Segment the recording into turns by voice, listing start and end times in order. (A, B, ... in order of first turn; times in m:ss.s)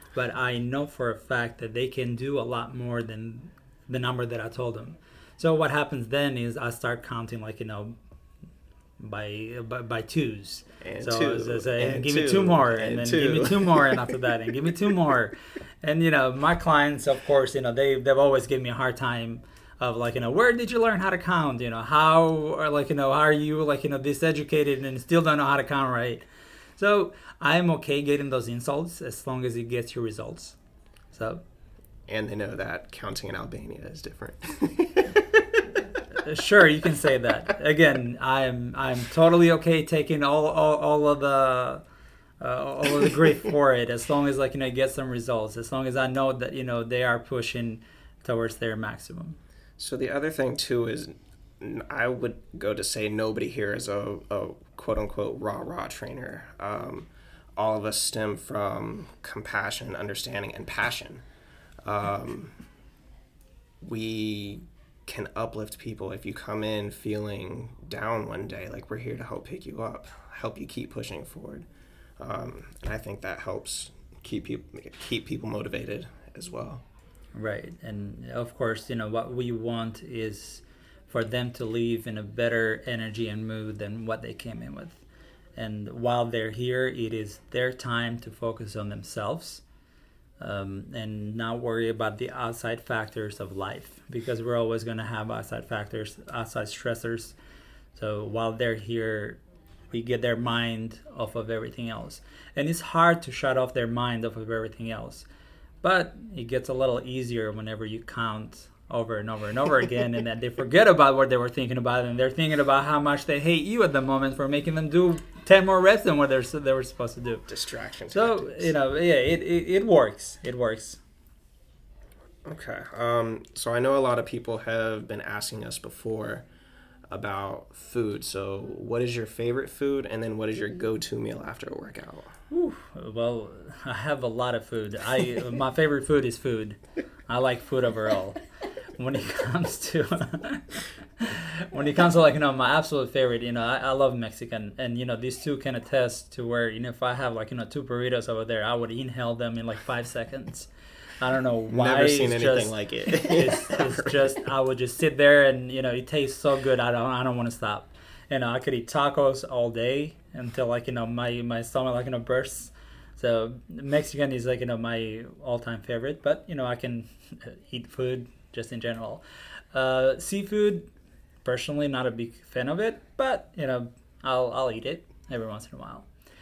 0:00.1-0:08.0 A
0:09.0-0:26.2 A
0:10.8-0:14.1 B
0:26.8-0:30.6 A
0:31.1-0:31.4 A
0:32.1-0:36.0 B
0:36.1-0:41.8 A
0:42.4-0:49.4 A
0:49.8-1:01.2 B
1:01.8-1:02.6 B
1:03.8-1:11.7 B
1:12.2-1:16.8 B
1:17.3-1:25.0 A
1:25.6-1:29.6 A
1:30.4-1:37.3 A
1:37.9-1:39.4 A
1:39.9-1:45.3 A
1:45.8-1:57.5 A
1:57.5-1:58.7 B
1:58.1-2:01.0 A
2:02.4-2:06.4 B
2:07.1-2:12.3 B
2:12.5-2:18.4 A
2:18.9-2:49.2 A
2:31.7-2:34.2 B
2:49.7-2:50.9 A
2:51.4-2:56.1 A